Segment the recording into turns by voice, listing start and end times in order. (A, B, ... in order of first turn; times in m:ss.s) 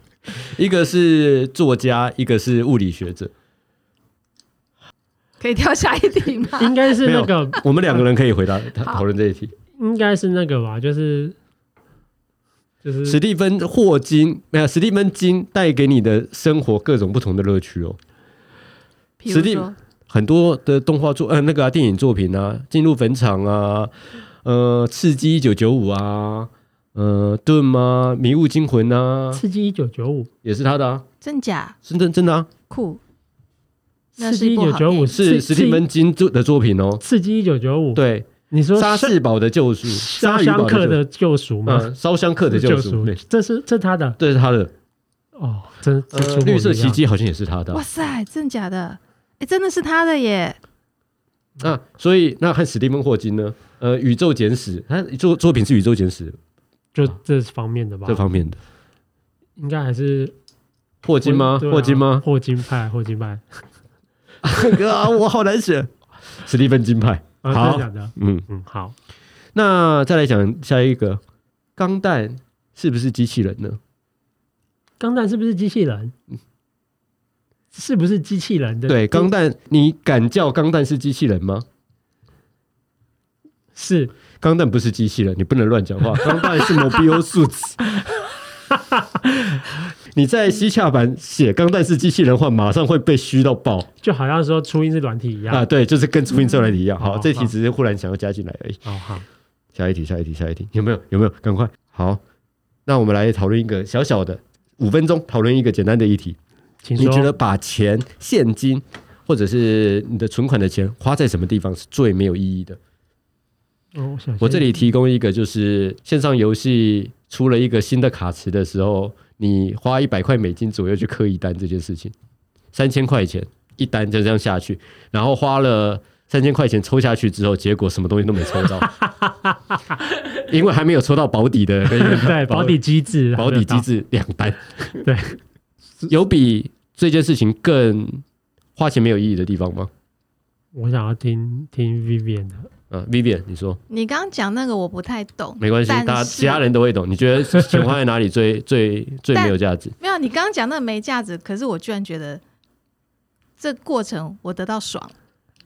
0:00.4-0:03.3 A
0:05.4-0:06.8 B
0:06.6-0:08.1 C
0:07.0-0:09.5 A
0:09.7-0:11.4 C
0:12.8-0:13.2 C
0:13.0-0:18.0 A
0:19.2-0:19.7 B
0:19.3-0:29.4 A
0:29.3-0:30.3 C
0:30.4-0:31.0 A
0:31.2-0:31.8 B
0:31.8-0:32.5 A
0:32.7-0:33.0 B
0:34.2-0:35.1 B
0:34.2-0:35.9 C
0:35.1-0:37.0 A
0:37.0-0:39.2 C
0:38.0-0:41.0 A
0:39.8-0:41.9 C
0:41.6-0:43.2 A
0:42.4-0:44.2 C
0:44.2-0:44.7 A
0:45.3-0:47.0 C
0:46.1-0:47.8 A
0:47.7-0:50.6 B
0:51.6-0:56.4 A
0:56.9-0:58.3 C
0:58.0-0:58.6 A
0:59.6-1:00.3 C
1:01.0-1:02.2 A
1:01.2-1:03.6 C
1:04.4-1:08.5 A
1:07.4-1:08.9 C
1:09.5-1:11.2 A
1:11.8-1:13.8 A
1:15.0-1:16.1 C
1:17.7-1:19.3 C
1:18.9-1:21.6 A
1:23.7-1:24.1 C
1:24.4-1:27.8 A
1:26.2-1:27.0 C
1:30.1-1:33.9 A
1:34.0-1:35.6 C
1:35.5-1:38.9 A
1:36.4-1:36.6 B
1:37.0-1:37.5 C
1:38.8-1:39.2 C
1:39.7-1:42.2 A
1:42.8-1:46.4 A
1:46.8-1:47.3 C
1:47.0-1:52.8 A
1:53.9-1:54.8 C
1:54.4-2:02.1 A
2:02.7-2:08.9 A
2:09.0-2:09.5 C
2:10.4-2:12.8 A
2:11.9-2:13.9 C
2:13.3-2:15.0 A
2:15.0-2:15.4 C
2:16.1-2:18.2 A
2:18.8-2:19.9 A
2:20.7-2:22.7 C
2:22.9-2:23.8 A
2:23.9-2:26.6 B
2:25.6-2:30.0 A
2:29.3-2:32.4 B
2:33.6-2:35.1 B